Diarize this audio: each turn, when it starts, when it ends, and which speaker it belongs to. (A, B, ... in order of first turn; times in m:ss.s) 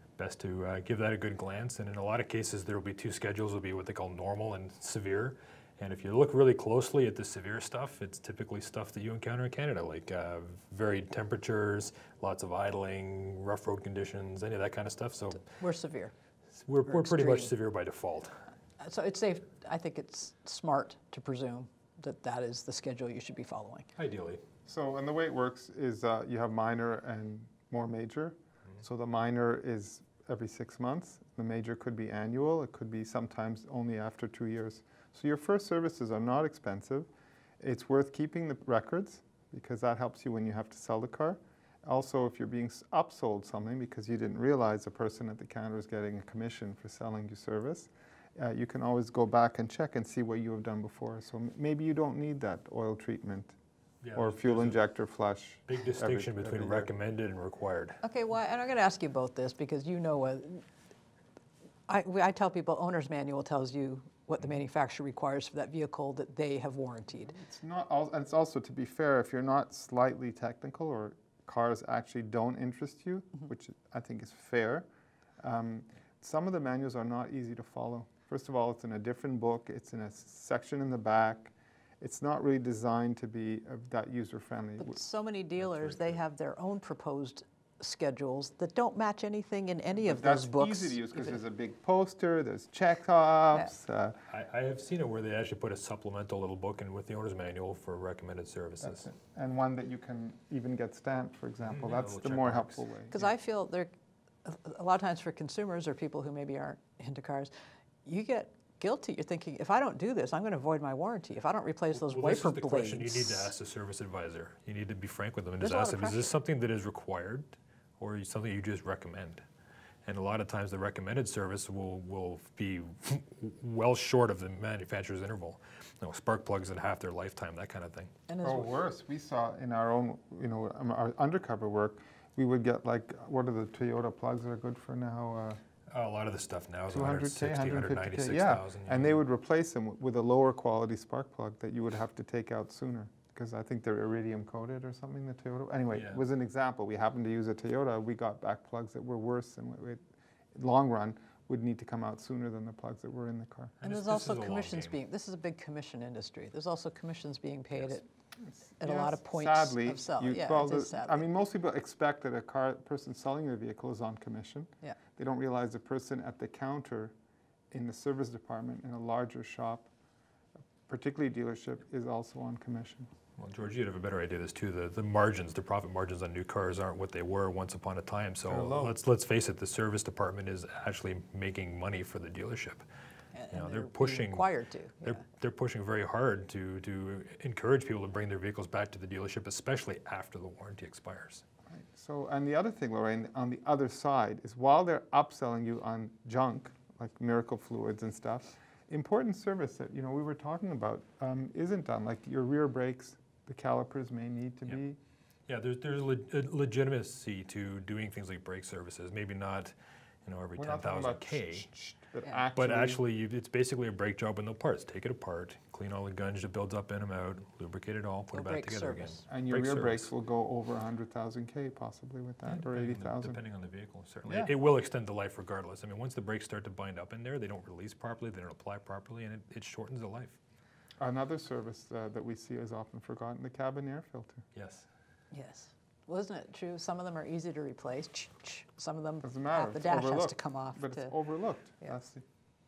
0:00.2-0:15.5 A
0:15.4-0:16.1 B
0:16.6-0:18.4 A
0:16.9-0:17.5 B
0:18.8-0:23.9 B
0:24.0-0:24.4 A
0:24.6-0:53.5 C
0:54.0-0:54.8 A
0:54.1-0:56.9 C
0:55.7-0:58.0 A
0:58.0-1:00.6 B
1:01.9-1:07.4 B
1:07.3-1:14.9 C
1:15.4-1:25.0 C
1:24.8-1:31.4 B
1:25.6-1:26.2 A
1:30.0-1:34.2 C
1:34.3-1:39.1 A
1:38.8-1:43.3 C
1:41.7-1:42.8 A
1:43.1-1:43.9 B
1:44.4-1:47.5 B
1:48.0-1:53.5 B
1:52.0-1:59.4 A
1:55.6-1:56.3 B
2:00.0-2:08.1 A
2:08.3-2:08.8 B
2:08.4-2:15.6 C
2:15.9-2:19.2 A
2:16.9-2:30.0 C
2:25.9-2:26.2 A
2:30.5-2:33.7 C
2:33.8-2:35.0 A
2:33.8-2:38.1 B
2:38.5-2:47.1 C
2:38.8-2:41.2 B
2:47.7-2:49.9 C
2:50.9-2:53.1 C
2:53.4-3:02.8 A
2:58.5-2:59.0 C
3:03.3-3:05.2 B
3:03.5-3:11.4 A
3:11.7-3:25.0 C
3:25.5-3:31.7 A
3:30.6-3:33.0 C
3:32.5-3:40.1 A
3:38.3-3:39.3 B
3:39.3-3:43.4 C
3:42.4-3:50.4 A
3:44.2-3:44.5 C
3:51.0-3:54.4 C
3:54.5-3:54.9 A
3:55.3-4:01.1 B
3:59.2-4:02.2 C